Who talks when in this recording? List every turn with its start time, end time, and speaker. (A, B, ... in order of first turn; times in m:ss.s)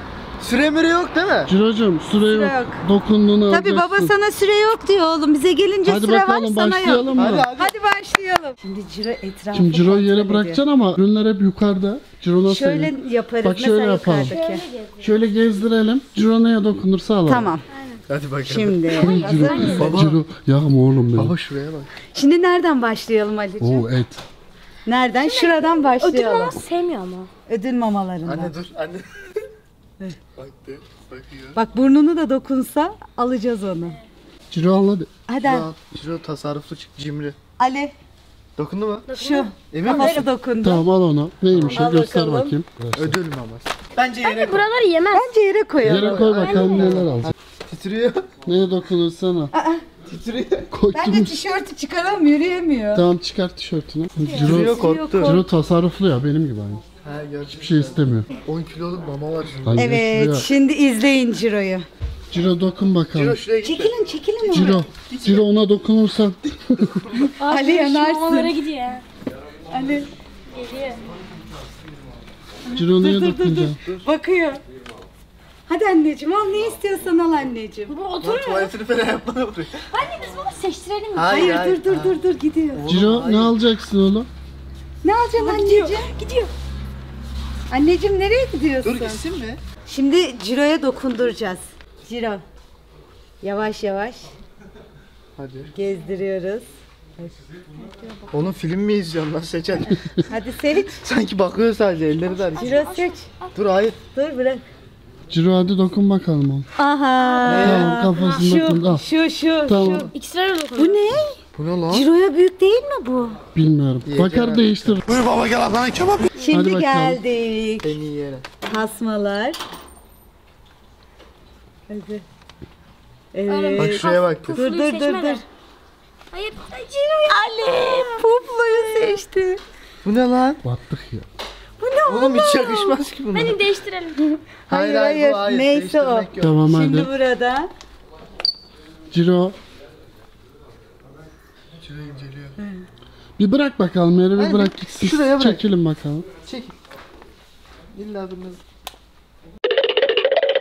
0:00.4-0:01.5 A
0:01.4-0:04.1 B
0:02.2-0:02.8 C
0:03.5-0:10.6 C
0:05.8-0:07.5 B
0:07.2-0:07.7 A
0:09.5-0:14.4 B
0:12.4-0:14.6 C
0:14.2-0:15.3 D
0:15.0-0:17.5 B
0:17.3-0:17.6 C
0:17.7-0:18.0 D
0:18.1-0:19.1 A
0:18.4-0:19.8 C
0:18.9-0:20.0 D
0:19.0-0:21.3 B
0:19.7-0:20.2 A
0:21.2-0:21.9 A
0:22.1-0:23.9 C
0:23.6-0:24.2 B
0:24.8-0:26.6 C
0:25.2-0:27.3 D
0:27.5-0:28.5 C
0:28.2-0:29.4 A
0:30.4-0:31.6 A
0:31.5-0:34.0 C
0:34.5-0:35.1 B
0:35.3-0:35.7 C
0:35.4-0:37.4 A
0:37.6-0:37.9 C
0:38.6-0:39.1 A
0:39.1-0:40.2 D
0:39.1-0:40.8 C
0:39.7-0:40.3 A
0:40.6-0:43.1 B
0:41.5-0:41.8 A
0:41.6-0:42.6 C
0:42.9-0:44.7 A
0:44.2-0:45.3 D
0:45.1-0:46.9 C
0:45.8-0:48.4 A
0:45.8-0:47.3 B
0:48.4-0:49.5 B
0:49.5-0:49.8 C
0:50.1-0:50.7 A
0:50.7-0:51.4 B
0:50.9-0:53.0 C
0:52.9-0:56.8 B
0:54.2-0:55.4 C
0:54.3-0:55.4 A
0:57.0-0:59.9 A
0:57.5-0:58.3 B
0:59.6-1:00.5 B
0:59.8-1:01.8 C
1:02.3-1:03.4 B
1:03.1-1:05.4 A
1:03.6-1:04.8 C
1:04.5-1:07.1 B
1:07.4-1:09.0 D
1:07.5-1:08.5 C
1:09.7-1:10.1 C
1:10.5-1:11.0 D
1:12.7-1:14.6 C
1:12.7-1:13.8 B
1:15.7-1:17.9 C
1:17.9-1:18.7 D
1:18.2-1:19.8 A
1:19.9-1:21.6 D
1:21.1-1:22.2 A
1:21.3-1:22.8 C
1:22.7-1:23.6 A
1:22.9-1:24.3 B
1:25.0-1:26.1 C
1:25.4-1:26.5 D
1:27.7-1:29.2 C
1:28.8-1:29.6 A
1:29.9-1:32.4 C
1:33.4-1:34.3 C
1:35.4-1:35.7 A
1:35.7-1:36.7 C
1:38.3-1:40.0 A
1:40.3-1:41.0 C
1:41.0-1:42.8 A
1:42.2-1:43.5 D
1:42.6-1:43.2 C
1:43.5-1:44.0 A
1:44.1-1:44.6 C
1:45.3-1:46.7 B
1:46.8-1:50.1 C
1:47.2-1:48.4 D
1:47.4-1:48.1 A
1:47.5-1:49.0 B
1:49.6-1:50.1 B
1:50.1-1:51.0 D
1:50.8-1:53.4 C
1:51.5-1:52.1 A
1:53.5-1:55.0 B
1:54.0-1:56.3 A
1:56.5-1:58.0 C
1:56.5-1:57.2 B
1:57.8-1:58.4 A
1:58.6-1:59.6 C
2:01.9-2:02.2 C
2:03.3-2:05.4 C
2:03.5-2:05.4 D
2:03.8-2:04.5 A
2:06.3-2:08.2 D
2:07.3-2:09.6 C
2:10.0-2:10.6 A
2:10.6-2:11.2 B
2:11.8-2:13.0 C
2:12.0-2:13.6 A
2:13.3-2:14.2 D
2:14.2-2:17.7 C
2:14.7-2:16.6 A
2:16.4-2:17.1 B
2:19.1-2:19.6 B
2:21.8-2:22.6 A
2:23.4-2:26.3 B
2:24.4-2:25.6 A
2:26.4-2:26.7 A
2:27.9-2:28.6 A